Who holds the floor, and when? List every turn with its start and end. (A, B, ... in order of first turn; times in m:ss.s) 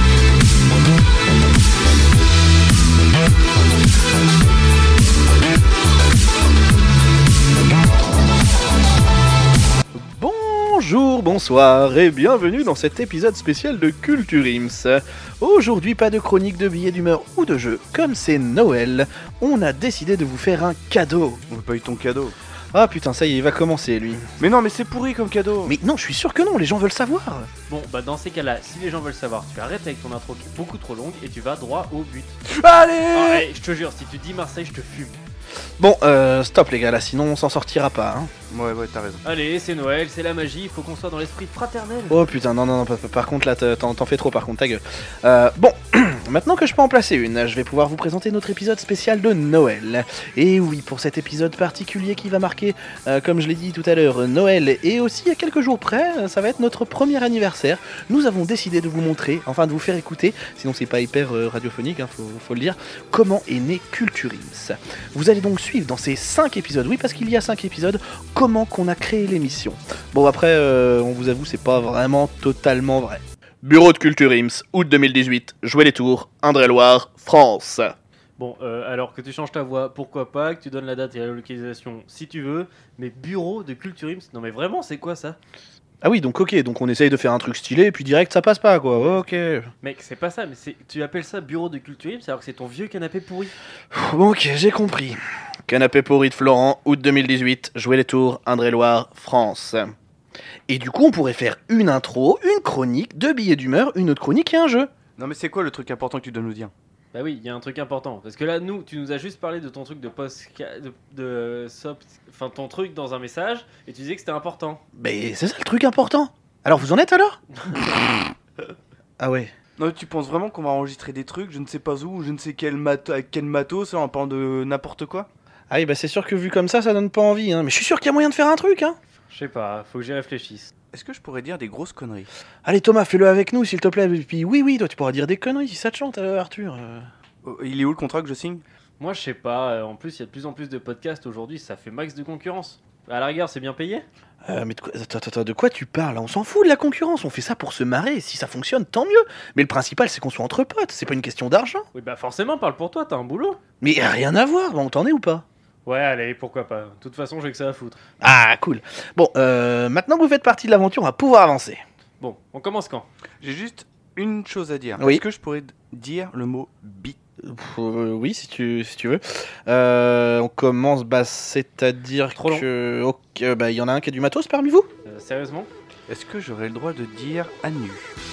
0:09.9-0:21.4 A
0:21.5-0:22.4 B
0:22.7-0:24.3 A
0:24.4-0:25.7 B
0:25.7-0:27.5 A
0:27.7-0:32.4 C
0:32.5-0:33.4 B
0:33.1-0:35.2 C
0:35.8-0:38.3 A
0:38.5-0:39.2 B
0:39.2-0:42.2 C
0:42.1-1:18.0 A
1:18.4-1:25.4 C
1:26.0-1:29.7 A
1:29.8-1:33.5 C
1:33.9-1:40.0 A
1:40.7-1:44.9 A
1:45.2-1:46.7 B
1:47.1-1:54.8 C
1:55.0-1:58.1 A
1:59.2-1:59.5 A
1:59.8-2:05.3 B
2:05.7-2:09.0 A
2:09.3-2:10.7 C
2:10.9-2:12.3 B
2:12.6-2:17.1 A
2:17.4-2:18.6 B
2:19.0-2:24.1 C
2:24.4-2:31.8 A
2:31.9-2:33.6 C
2:33.8-2:35.4 A
2:35.8-2:38.0 C
2:38.2-2:41.8 A
2:42.2-2:43.1 C
2:43.4-2:47.2 B
2:47.4-2:54.9 A
2:52.4-2:52.7 C
2:55.0-2:55.7 C
2:56.1-2:58.1 B